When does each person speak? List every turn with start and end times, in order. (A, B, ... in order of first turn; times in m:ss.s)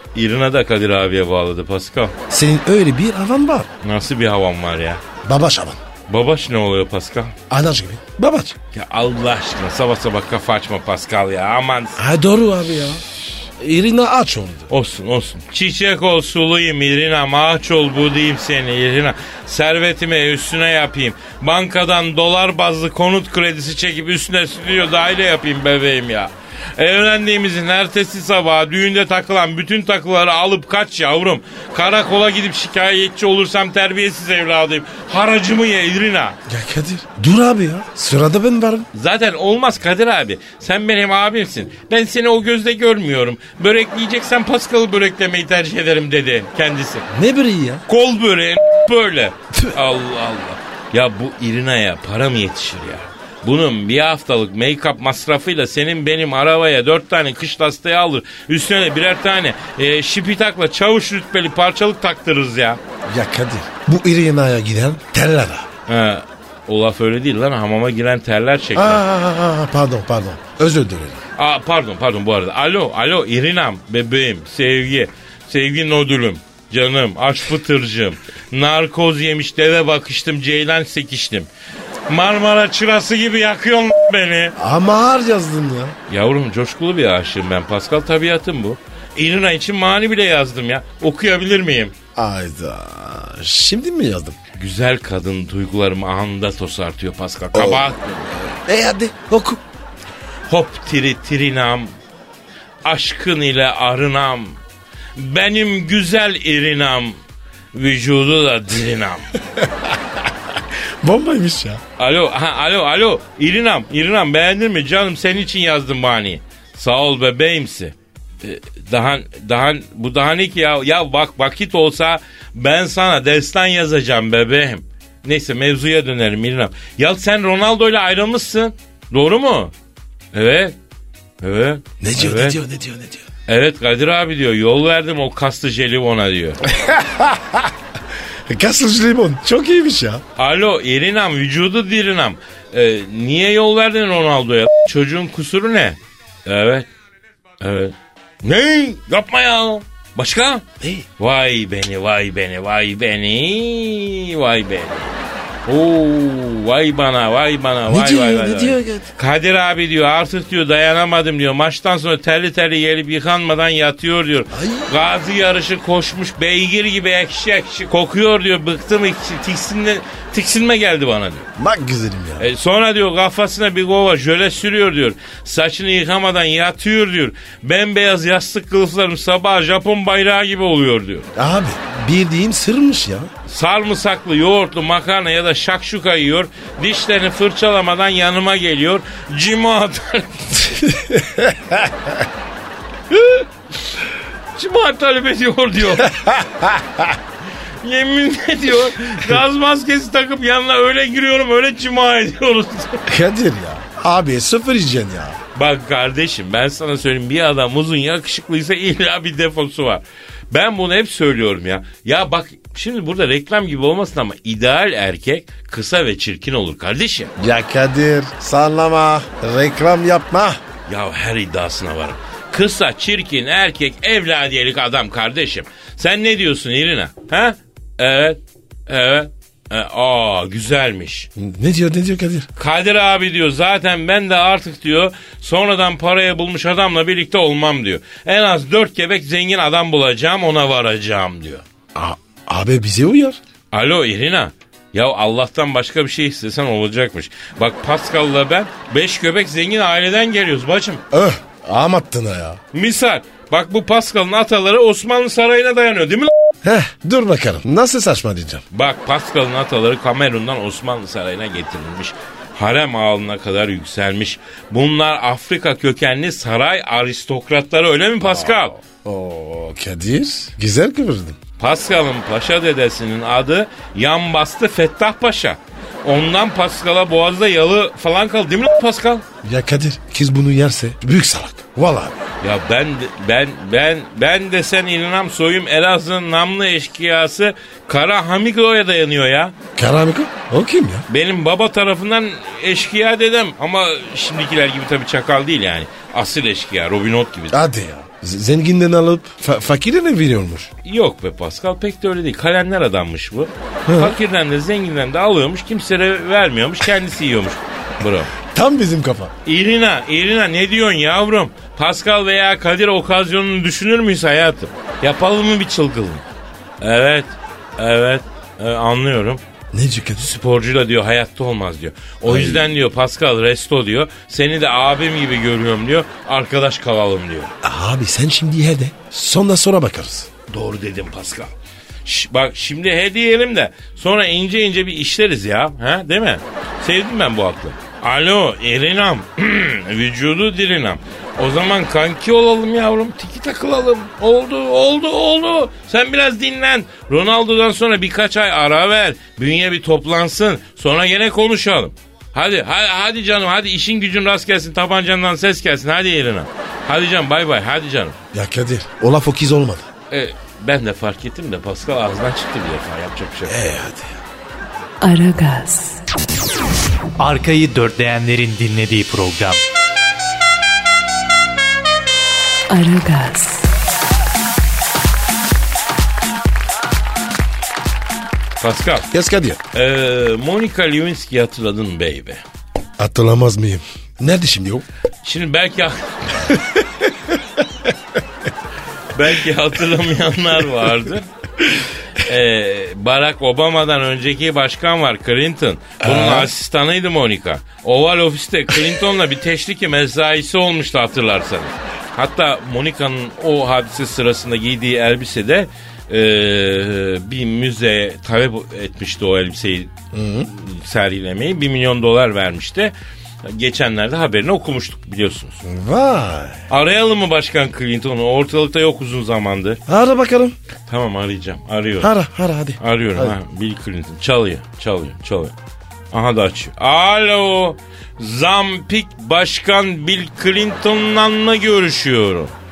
0:00.1-0:02.2 A
0:02.3-0:03.7 B
0:03.8-0:05.0 A
0:05.2-0:05.8 B
0:06.1-0:07.4 A
0:07.5-0:08.6 B
0:08.7-0:12.0 A
0:12.0-0:14.7 B
0:14.7-0:36.4 A
0:36.5-0:38.9 B
0:38.9-0:47.0 A
0:47.1-0:47.8 B
0:47.9-1:02.8 A
1:03.1-1:05.7 B
1:05.9-1:09.0 A
1:08.8-1:11.2 B
1:11.4-1:21.5 A
1:22.1-1:24.6 A
1:24.6-1:26.0 B
1:26.1-1:32.0 A
1:32.2-1:34.4 B
1:34.6-1:38.4 A
1:37.5-1:39.6 B
1:40.5-1:42.0 A
1:42.8-1:44.6 A
1:45.2-1:47.2 A
1:47.7-1:49.4 A
1:49.6-1:50.0 B
1:51.0-1:51.8 B
1:52.0-2:09.7 A
2:10.3-2:10.8 A
2:11.4-2:12.6 A
2:12.0-2:13.2 B
2:13.5-2:16.6 A
2:16.6-2:17.7 B
2:18.5-2:20.2 B
2:20.4-2:26.9 A
2:27.6-2:30.6 A
2:30.8-2:31.1 B
2:31.2-2:35.2 A
2:35.7-2:51.5 A
2:37.9-2:39.1 B
2:44.5-2:45.0 B
2:51.6-2:52.5 B
2:52.4-3:01.3 A
3:01.4-3:03.3 B
3:03.5-3:10.9 A
3:10.8-3:12.2 B
3:14.6-3:16.2 A
3:16.0-3:17.1 B
3:17.8-3:23.1 A
3:23.1-3:25.4 B
3:25.6-3:37.3 A
3:37.4-3:40.6 B
3:40.9-3:51.3 A
3:51.4-3:52.5 B
3:52.6-4:01.6 A
4:02.0-4:03.4 B
4:03.7-4:11.0 A
4:11.1-4:12.6 B
4:12.7-4:16.3 A
4:16.6-4:18.6 B
4:18.7-4:28.8 A
4:28.2-4:31.4 B
4:31.6-4:39.2 A
4:39.4-4:42.3 B
4:42.4-4:49.6 A
4:49.8-4:51.1 B
4:51.1-4:57.6 A
4:57.5-5:00.7 B
5:00.8-5:08.4 A
5:03.9-5:04.2 B
5:08.4-5:09.3 B
5:09.5-5:16.2 A
5:16.8-5:19.4 A
5:19.7-5:20.3 B
5:20.2-5:27.5 A
5:22.3-5:22.7 B
5:27.6-5:30.3 B
5:30.5-5:31.5 A
5:32.0-5:58.2 A
5:58.3-5:59.9 B
6:00.1-6:03.6 A
6:03.5-6:04.2 B
6:05.0-6:06.0 C
6:07.2-6:09.6 D
6:12.7-6:13.7 C
6:18.6-6:19.1 A
6:19.1-6:19.6 B
6:19.7-6:22.4 A
6:23.0-6:24.9 B
6:25.2-6:26.6 A
6:26.8-6:27.4 B
6:29.1-6:31.3 A
6:32.2-6:49.9 A
6:36.0-6:36.5 B
6:50.1-6:50.5 B
6:50.5-6:55.6 A
6:55.6-6:56.6 B
6:56.7-6:59.8 A
6:59.9-7:00.6 B
7:00.9-7:02.1 A
7:02.0-7:03.4 B
7:02.8-7:05.5 A
7:06.1-7:12.5 A